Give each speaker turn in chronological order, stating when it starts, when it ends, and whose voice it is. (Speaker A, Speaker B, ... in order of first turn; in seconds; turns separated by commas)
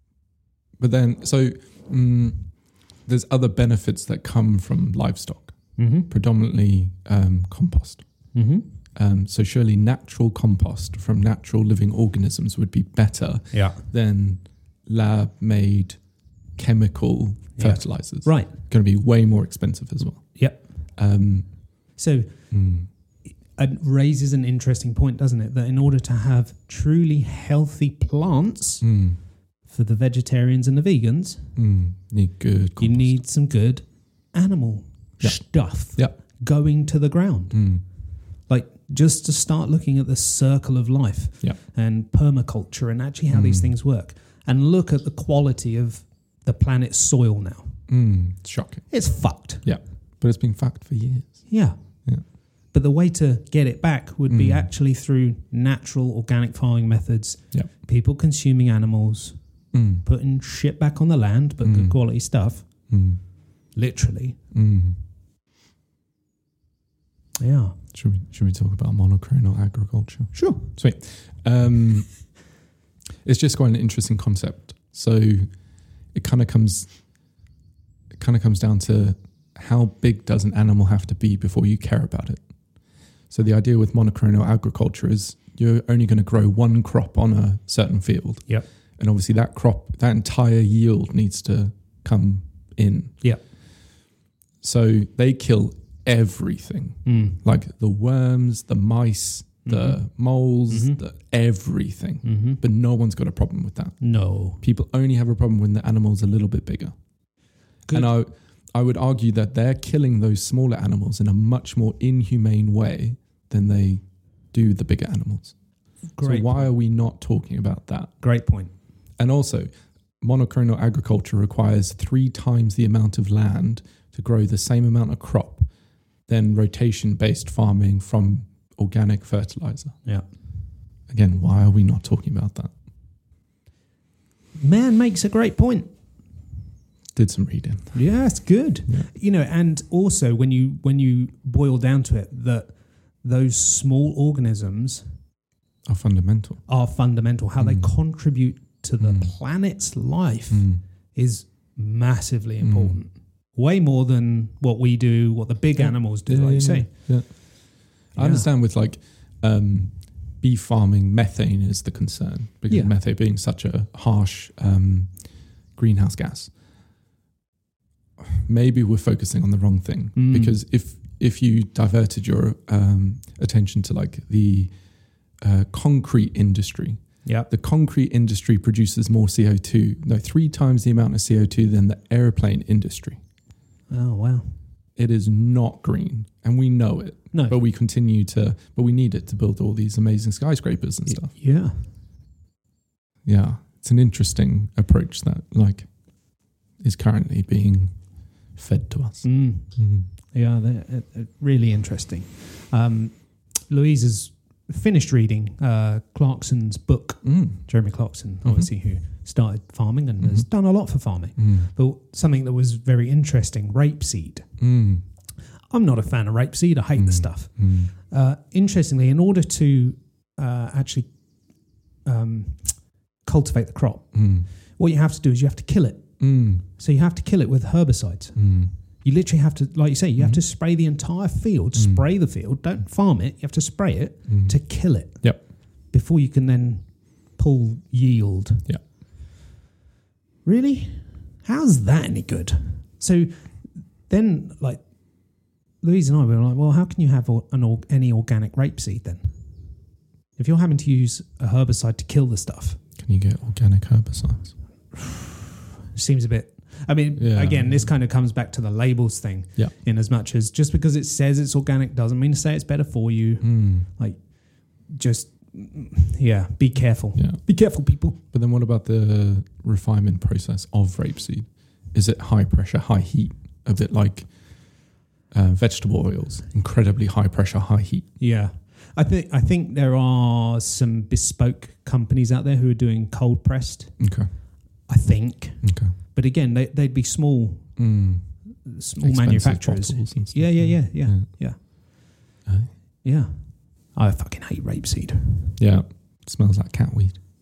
Speaker A: 0.8-8.1, Speaker B: 5.8-6.1, Speaker B: 8.3-8.7, Speaker A: 9.0-16.0, Speaker B: 13.5-13.8, Speaker A: 16.6-20.4, Speaker B: 17.6-18.5, Speaker B: 20.4-20.7, Speaker A: 20.9-21.6, Speaker B: 22.0-22.5, Speaker A: 22.5-22.9, Speaker B: 23.6-28.9, Speaker A: 28.8-29.2, Speaker B: 29.7-31.5, Speaker A: 31.6-33.2, Speaker B: 32.8-37.6, Speaker A: 35.2-36.1, Speaker A: 37.5-37.8, Speaker B: 38.5-47.8, Speaker A: 43.3-43.7, Speaker A: 47.9-49.0, Speaker B: 48.9-49.6, Speaker A: 49.6-51.5, Speaker B: 51.5-52.1, Speaker B: 52.7-59.4, Speaker A: 54.3-54.7, Speaker A: 59.7-60.0, Speaker B: 60.0-62.7, Speaker A: 61.6-62.0, Speaker A: 62.9-63.2, Speaker B: 63.8-64.4, Speaker A: 64.5-65.0, Speaker B: 67.4-67.8, Speaker A: 67.9-72.4, Speaker B: 70.3-70.7, Speaker A: 73.2-75.5, Speaker A: 76.1-76.9, Speaker A: 78.1-82.4, Speaker A: 83.3-88.5, Speaker A: 89.0-93.1, Speaker A: 94.6-104.0, Speaker B: 97.0-97.4, Speaker B: 99.6-100.0, Speaker B: 100.7-101.0, Speaker B: 102.2-102.6, Speaker B: 104.0-104.6, Speaker A: 104.6-107.0, Speaker A: 107.9-115.5, Speaker B: 116.1-116.7, Speaker A: 116.2-118.1, Speaker B: 118.2-118.7, Speaker A: 119.2-119.7, Speaker A: 120.2-125.7, Speaker A: 126.3-130.0, Speaker A: 131.1-132.7, Speaker B: 134.6-135.9, Speaker A: 137.1-138.0, Speaker B: 137.9-145.0, Speaker A: 145.9-146.6, Speaker B: 146.7-157.3, Speaker A: 147.6-147.9, Speaker A: 149.0-149.3, Speaker A: 150.5-150.8, Speaker A: 152.6-153.0, Speaker A: 155.8-166.5, Speaker B: 158.1-158.5, Speaker B: 162.7-162.9, Speaker A: 168.2-174.7, Speaker B: 170.1-170.6, Speaker A: 175.4-183.2, Speaker B: 183.9-184.6, Speaker A: 185.0-191.3, Speaker B: 187.3-187.6, Speaker B: 191.1-191.9, Speaker A: 193.3-195.9, Speaker A: 196.8-200.1, Speaker B: 199.2-214.5, Speaker A: 207.2-207.6, Speaker A: 208.4-208.7, Speaker A: 210.2-210.5, Speaker A: 211.4-211.7, Speaker A: 214.6-215.0, Speaker B: 215.7-221.1, Speaker A: 217.0-217.9, Speaker B: 222.1-228.4, Speaker A: 224.1-224.5, Speaker A: 226.2-226.6, Speaker A: 228.4-228.7, Speaker B: 229.0-235.2, Speaker A: 231.8-232.0, Speaker A: 234.3-234.6, Speaker B: 235.9-238.7, Speaker B: 240.4-243.6, Speaker B: 244.1-244.8, Speaker B: 245.8-249.3, Speaker B: 250.4-252.8, Speaker A: 253.0-254.5, Speaker B: 254.9-264.3, Speaker A: 257.2-257.9, Speaker A: 263.4-263.9, Speaker B: 264.9-268.2, Speaker A: 267.2-267.4, Speaker A: 268.3-278.1, Speaker B: 278.2-284.0, Speaker A: 284.0-284.3, Speaker B: 284.9-287.8, Speaker A: 285.6-285.9, Speaker A: 287.8-288.5, Speaker B: 288.6-291.7, Speaker A: 289.0-291.3, Speaker A: 292.5-292.7, Speaker B: 293.0-295.6, Speaker A: 295.6-297.2